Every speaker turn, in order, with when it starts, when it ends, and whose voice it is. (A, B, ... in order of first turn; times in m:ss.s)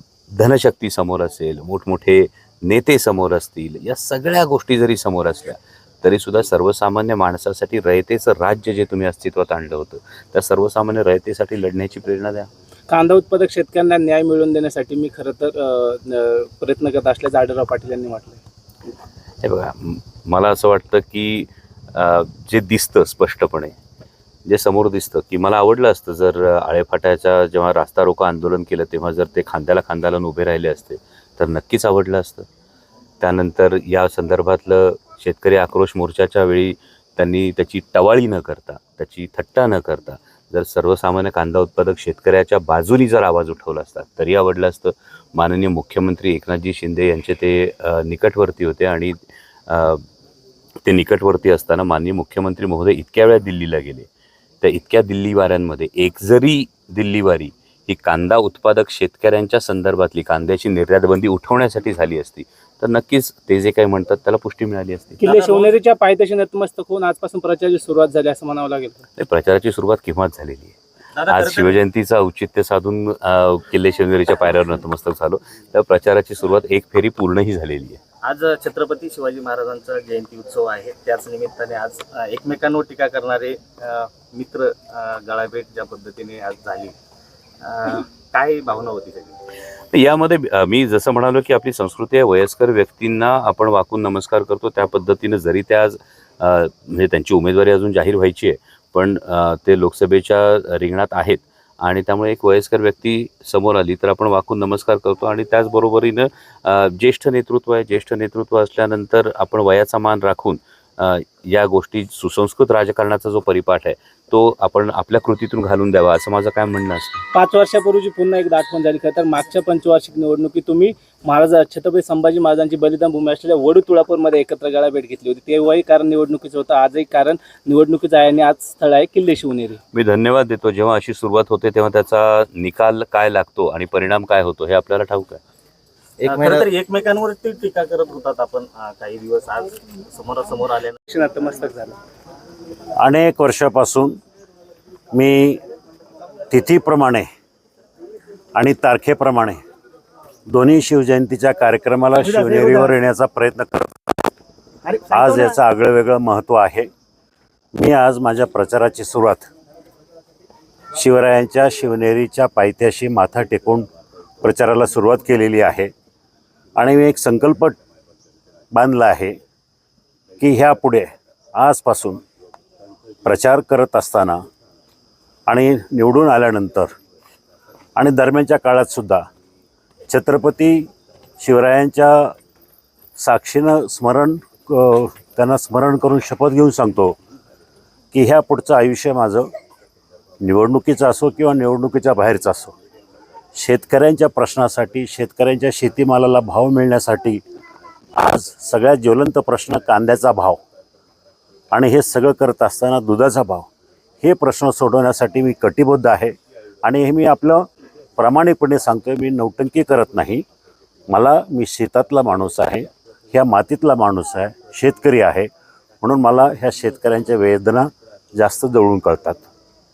0:00.3-0:12.5 A
0:12.9-0:18.4 B
0:19.4-0:23.7 A
0:24.4-0:32.4 A
0:33.2-0:50.0 A
0:50.8-0:54.1 A
0:54.6-1:05.2 A
1:05.2-1:09.0 B
1:05.2-1:05.7 C
1:09.2-1:10.8 A
1:11.2-1:11.8 C
1:11.3-1:18.0 A
1:18.2-1:26.9 C
1:27.6-1:29.3 C
1:29.9-1:57.2 A
1:57.3-2:09.8 B
2:09.9-2:15.4 A
2:16.2-2:21.0 C
2:21.1-2:22.0 B
2:23.0-2:24.2 D
2:25.1-2:25.6 D
2:26.5-2:27.3 D
2:28.5-2:29.6 D
2:30.5-2:34.1 D
2:32.2-2:32.9 C
2:34.8-2:35.5 C
2:35.1-2:36.9 D
2:37.7-2:39.5 D
2:40.9-2:43.9 D
2:44.4-2:45.9 D
2:46.8-2:47.8 D
2:48.7-2:49.3 D
2:50.4-2:52.2 D
2:53.2-2:54.4 D
2:55.5-2:56.9 D
2:58.0-2:59.2 D
3:00.1-3:00.9 D
3:01.4-3:02.3 D
3:03.2-3:07.2 D
3:08.1-3:09.5 D
3:10.4-3:12.7 D
3:13.5-3:17.4 D
3:18.2-3:20.6 D
3:21.7-3:23.7 D
3:24.2-3:27.6 D
3:28.2-3:30.4 D
3:31.1-3:35.5 D
3:36.0-3:39.4 D